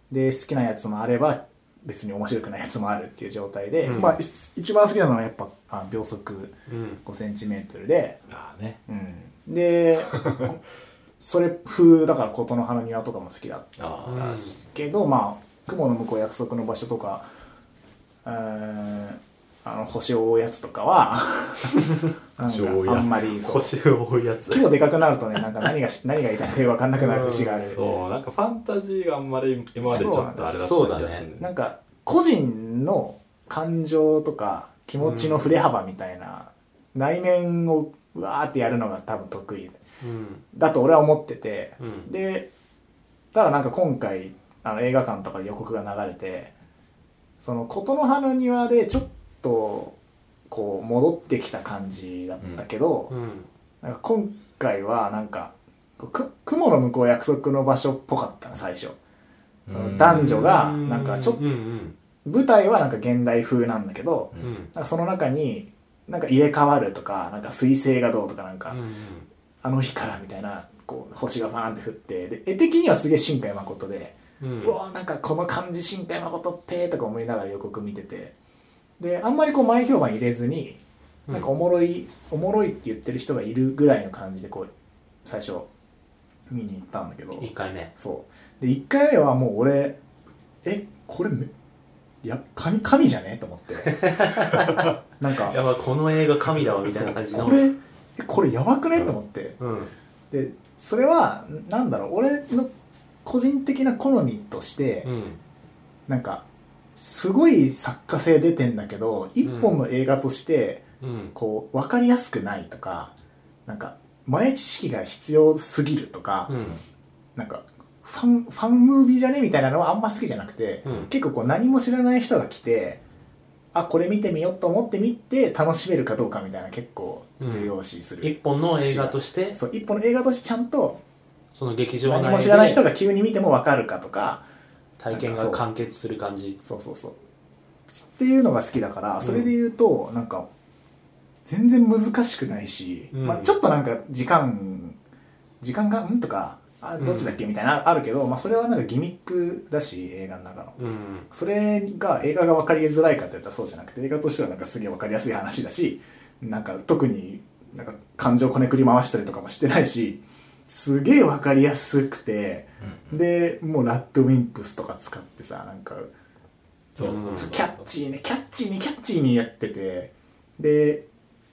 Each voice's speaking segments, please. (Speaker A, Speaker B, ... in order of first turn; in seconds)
Speaker A: 0.1-8.2, 8.9-10.6, 11.2-17.3, 18.2-21.8, 22.4-23.7, 24.5-27.8, 29.8-30.6, 31.4-39.8, 40.5-42.5, 43.3-46.5, 47.4-50.0, 50.5-53.1, 53.8-59.0, 59.7-61.4, 62.2-68.8, 69.6-78.3, 79.0-84.7, 85.2-85.7, 86.5-90.0, 90.6-91.5, 92.2-94.0, 95.2-95.6, 97.0-99.6, 100.3-102.7, 103.2-105.1, 106.1-110.8, 111.3-113.1, 113.7-116.5, 117.4-123.0, 123.7-131.0, 132.1-134.4, 135.1-135.6, 136.6-137.2, 138.1-140.5, 141.4-145.0, 145.6-150.8, 151.3-166.1, 167.1-171.0
Speaker B: 3.8-4.2, 6.7-7.0, 14.1-14.6, 23.4-24.7, 27.0-27.8, 30.0-31.2, 35.0-35.6, 40.0-40.4, 41.8-42.1, 53.1-53.5, 60.0-62.0, 64.4-64.7, 68.7-69.3, 74.4-74.8, 87.4-87.9, 93.8-94.9, 95.5-97.7, 99.6-99.9, 105.0-105.4, 109.4-109.8, 111.0-111.3, 116.5-116.8, 120.8-121.1, 127.4-129.6, 131.5-132.8, 135.0-136.6, 139.2-139.5, 143.1-143.6, 147.0-147.4, 150.8-151.3, 167.0-167.5
Speaker C: 8.3-8.8, 10.1-10.5, 13.8-14.4, 22.4-23.3, 27.3-31.5, 59.7-60.5, 162.8-163.2, 167.0-167.8